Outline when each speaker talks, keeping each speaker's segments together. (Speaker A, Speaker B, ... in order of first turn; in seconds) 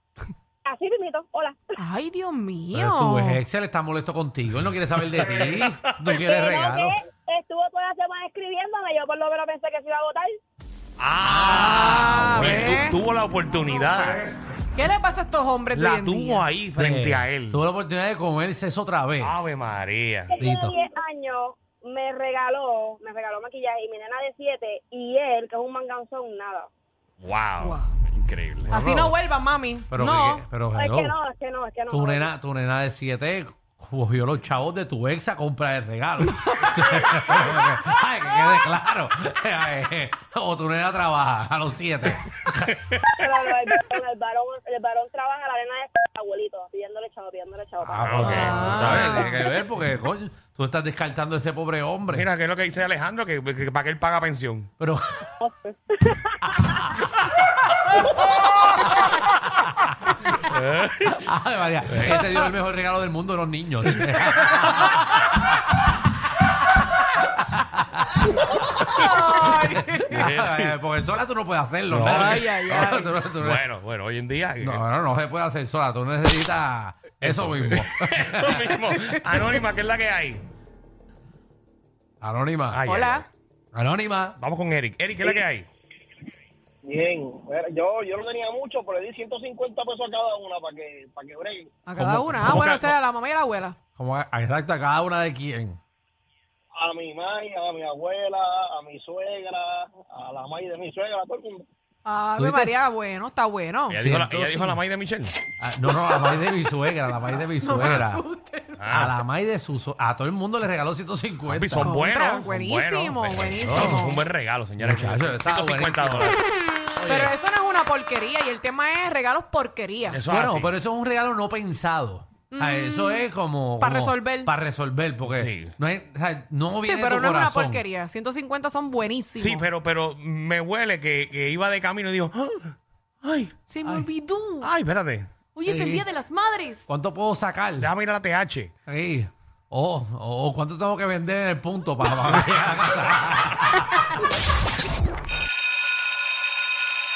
Speaker A: 0.6-1.7, 6.1-10.4, 20.3-26.7, 30.7-32.3, 43.1-48.7, 55.4-56.9
Speaker B: 1.8-3.4, 11.6-13.0, 14.7-16.4, 28.7-30.4, 48.2-49.4, 68.9-70.3, 72.0-73.0, 82.8-83.2, 91.8-93.8, 102.0-104.0, 106.0-106.4, 107.3-108.8, 111.8-114.2, 117.0-120.2, 122.5-123.3, 123.8-124.5, 126.8-129.6, 133.7-134.7, 135.5-136.9
Speaker C: 2.7-6.9, 11.2-12.7, 16.8-19.4, 20.4-20.7, 28.7-29.1, 29.9-31.1, 31.9-42.8, 47.8-52.3, 54.8-55.2, 61.2-65.1, 67.6-67.9, 69.4-73.6, 74.6-79.6, 82.2-82.8, 83.7-84.4, 92.0-92.8, 94.0-95.8, 102.3-102.8, 104.0-104.8, 105.6-108.2, 108.9-112.0, 113.6-114.1, 114.8-116.3, 117.0-117.3, 120.2-127.8, 135.7-136.0, 136.9-137.9, 138.8-144.0
Speaker D: 5.2-5.6, 11.0-14.2, 15.7-17.6, 19.2-20.3, 27.2-28.7, 42.9-43.2, 48.0-49.3, 52.1-54.7, 60.3-61.3, 61.9-62.4, 68.8-69.1, 70.1-70.8, 71.9-74.8, 77.2-80.4, 82.7-83.2, 84.4-85.7, 92.5-92.8, 103.9-105.3, 108.8-109.1, 111.5-116.4, 120.1-120.7, 125.2-125.7, 129.3-133.5, 134.6-135.3, 137.8-138.7
Speaker E: 86.8-91.7, 96.7-101.7